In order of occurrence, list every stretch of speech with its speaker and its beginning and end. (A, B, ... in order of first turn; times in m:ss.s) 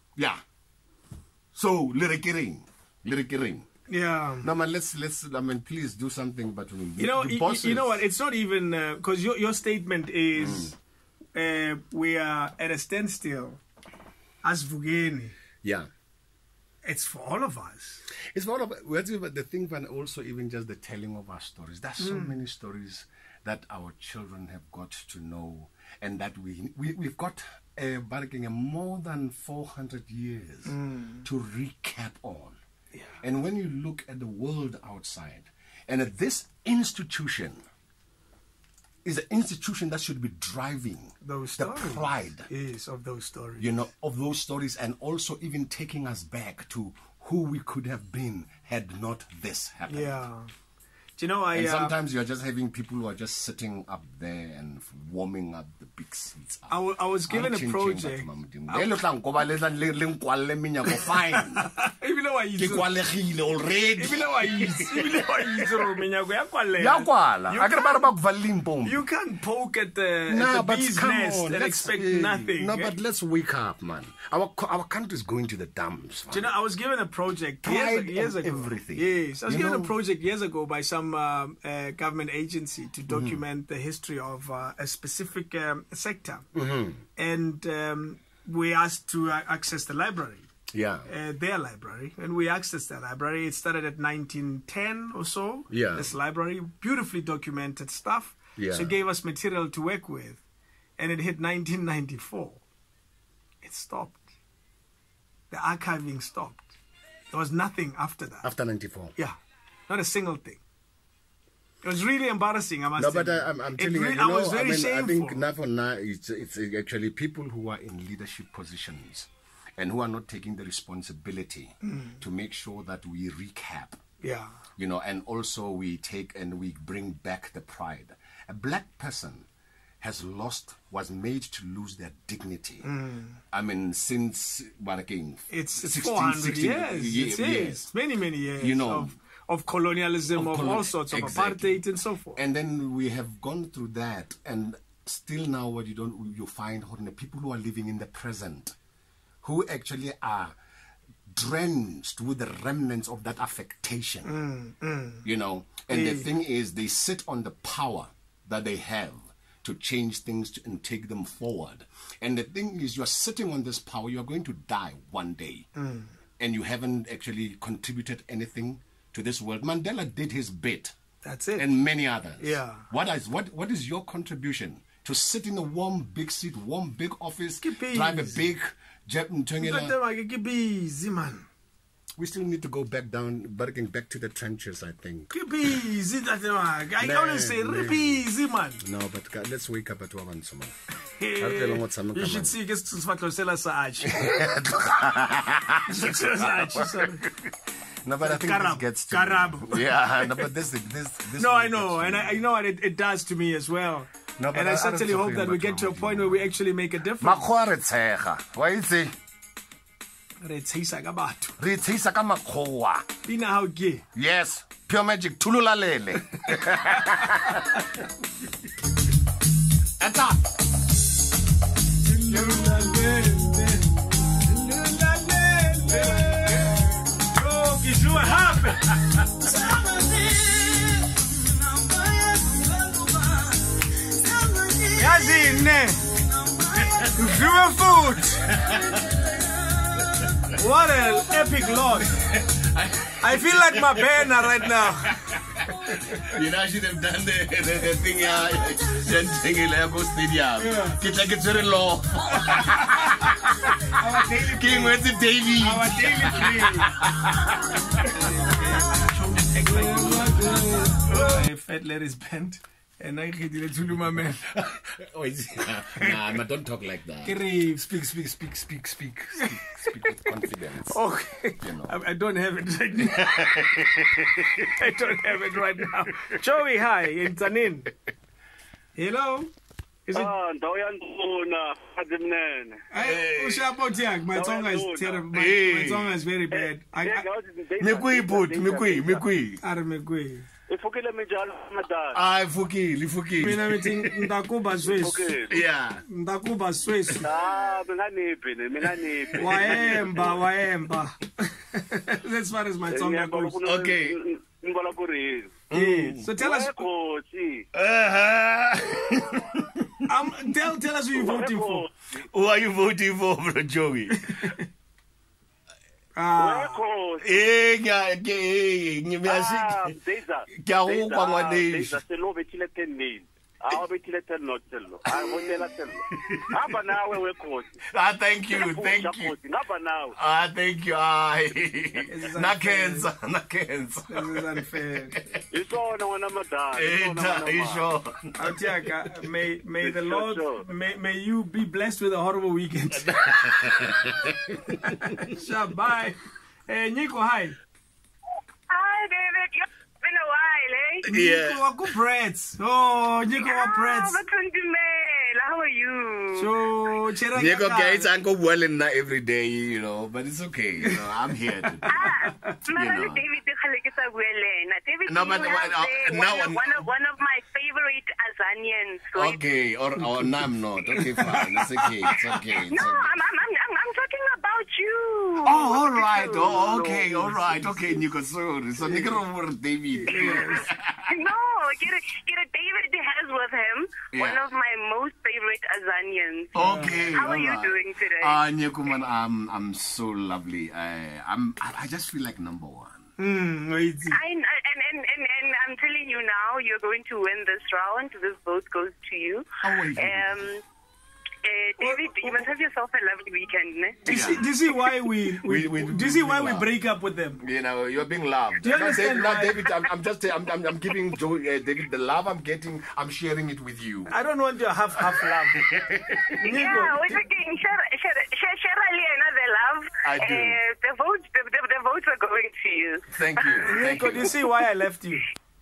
0:00.2-0:00.4 A
0:01.5-0:03.7 A
0:03.9-0:04.5 B
0:04.4-0:08.0 A
0:07.0-0:10.8 B
0:10.3-0:10.7 A
0:11.3-0:13.6 B
0:14.4-0:15.3 B
0:15.6-0:15.9 A
0:16.8-0:18.0 B
0:18.1-0:32.6 A
0:22.0-0:22.4 B
0:30.6-0:31.2 B
0:32.9-0:33.2 B
0:33.2-0:37.6 A
0:39.0-0:42.5 A
0:41.2-0:43.8 B
0:43.6-0:50.2 A
0:49.9-0:50.5 B
0:51.2-0:52.0 B
0:51.5-1:01.7 A
0:56.7-0:58.9 B
1:01.6-1:02.9 B
1:02.6-1:05.9 A
1:04.0-1:08.1 B
1:06.7-1:09.0 A
1:08.8-1:12.9 B
1:10.3-1:16.5 A
1:16.3-1:26.4 B
1:17.6-1:20.0 A
1:23.1-1:23.4 A
1:26.5-1:27.0 A
1:27.2-1:30.5 B
1:30.7-1:31.1 A
1:31.1-1:40.4 B
1:35.7-1:36.1 A
1:38.6-1:38.9 A
1:41.0-1:42.6 B
1:43.6-1:44.2 B
1:45.5-1:46.7 B
1:47.3-1:48.5 B
1:48.4-1:49.1 A
1:49.9-1:50.6 B
1:51.8-1:55.4 B
1:53.0-2:04.0 A
2:01.8-2:02.2 B
2:04.2-2:04.6 B
2:04.8-2:09.5 A
2:10.0-2:12.9 A
2:12.8-2:13.4 B
2:13.5-2:17.9 A
2:15.5-2:22.4 B
2:18.6-2:19.1 A
2:20.3-2:21.8 A
2:22.3-2:28.8 A
2:29.4-2:30.6 A
2:31.3-2:34.4 A
2:34.2-2:35.3 B
2:35.2-2:45.7 A
2:35.9-2:36.3 B
2:45.8-2:46.1 B
2:46.4-2:50.9 A
2:51.2-2:51.7 B
2:51.6-2:59.9 A
2:52.4-2:52.8 B
2:57.6-2:58.5 B
2:59.6-3:01.5 B
3:02.2-3:05.3 A
3:05.3-3:08.8 B
3:07.0-3:08.2 A
3:08.8-3:10.8 A
3:11.2-3:14.6 B
3:11.4-3:12.6 A
3:14.0-3:17.5 A
3:15.8-3:17.2 B
3:18.0-3:22.4 A
3:18.2-3:20.5 B
3:21.4-3:27.4 B
3:24.4-3:26.6 A
3:27.2-3:29.1 A
3:30.4-3:31.6 B
3:31.6-3:33.0 A
3:33.2-3:34.0 B
3:34.1-3:37.9 A
3:36.4-3:37.1 B
3:40.0-3:40.4 A
3:42.1-3:49.9 B
3:42.3-3:42.8 A
3:49.7-3:50.2 A
3:54.9-3:56.1 B
3:56.7-3:57.4 A
3:57.1-3:58.6 B
3:58.3-3:59.2 A
4:00.0-4:00.4 A
4:00.5-4:02.2 B
4:01.8-4:18.5 A
4:03.2-4:05.1 B
4:10.6-4:11.0 B
4:12.4-4:13.3 B
4:13.9-4:16.9 B
4:18.0-4:24.4 B
4:19.6-4:20.9 A
4:24.5-4:31.0 A
4:27.2-4:27.8 B
4:29.4-4:30.3 B
4:30.9-4:37.9 B
4:31.6-4:32.0 A
4:33.1-4:36.4 A
4:39.0-4:39.5 B
4:40.1-4:40.3 B
4:40.1-4:42.8 C
4:42.9-4:47.2 B
4:43.0-4:43.6 A
4:44.3-4:45.2 C
4:45.3-4:46.2 A
4:46.5-4:49.2 C
4:47.8-4:49.6 A
4:49.6-4:50.5 B
4:50.7-4:52.2 C
4:52.1-4:54.3 A
4:53.4-4:55.3 B
4:54.8-4:55.6 C
4:55.5-4:56.0 A
4:56.1-4:57.3 B
4:57.2-5:00.2 C
4:58.8-5:00.1 A
4:59.4-5:03.6 B
5:02.9-5:05.6 C
5:03.6-5:04.2 A
5:05.7-5:06.3 A
5:05.7-5:06.9 B
5:06.4-5:07.6 C
5:07.7-5:10.0 A
5:10.1-5:11.8 B
5:11.1-5:11.9 C
5:12.3-5:14.6 A
5:16.2-5:16.8 B
5:16.4-5:17.3 C
5:17.2-5:19.9 A
5:19.2-5:27.8 C
5:20.6-5:22.0 A
5:25.0-5:26.9 A
5:27.9-5:29.3 A
5:28.5-5:30.1 C
5:30.1-5:35.4 A
5:32.1-5:33.1 B
5:34.1-5:35.1 B
5:35.5-5:37.8 C
5:36.7-5:38.5 A
5:38.4-5:43.1 B
5:39.8-5:40.6 C
5:42.9-5:45.2 A
5:45.0-5:46.2 B
5:46.7-5:47.6 B
5:48.7-5:51.0 D
5:51.0-5:51.6 A
5:51.0-5:54.2 B
5:53.4-5:56.5 D
5:56.3-5:58.1 B
5:57.3-6:02.0 A
6:01.8-6:02.5 B
6:01.9-6:09.4 D
6:02.6-6:03.2 A
6:05.0-6:06.8 A
6:09.1-6:13.1 A
6:10.9-6:12.4 B
6:12.7-6:17.0 D
6:15.4-6:21.3 A
6:18.8-6:19.1 B
6:20.0-6:20.7 B
6:20.1-6:20.5 D
6:21.1-6:28.4 D
6:24.1-6:24.4 A
6:26.5-6:33.1 A
6:26.5-6:27.1 B
6:33.2-6:34.2 B
6:34.1-6:40.6 D
6:39.6-6:40.3 A
6:41.4-6:44.0 D
6:41.8-6:42.4 B
6:44.0-6:47.4 B
6:44.1-6:44.5 A
6:45.2-6:46.7 A
6:47.4-6:54.1 A
6:48.6-6:49.7 B
6:54.1-6:55.6 B
6:55.0-6:56.8 A
6:56.4-6:57.1 B
6:56.4-7:03.8 D
7:00.0-7:00.6 A
7:03.1-7:04.3 A
7:03.6-7:05.3 B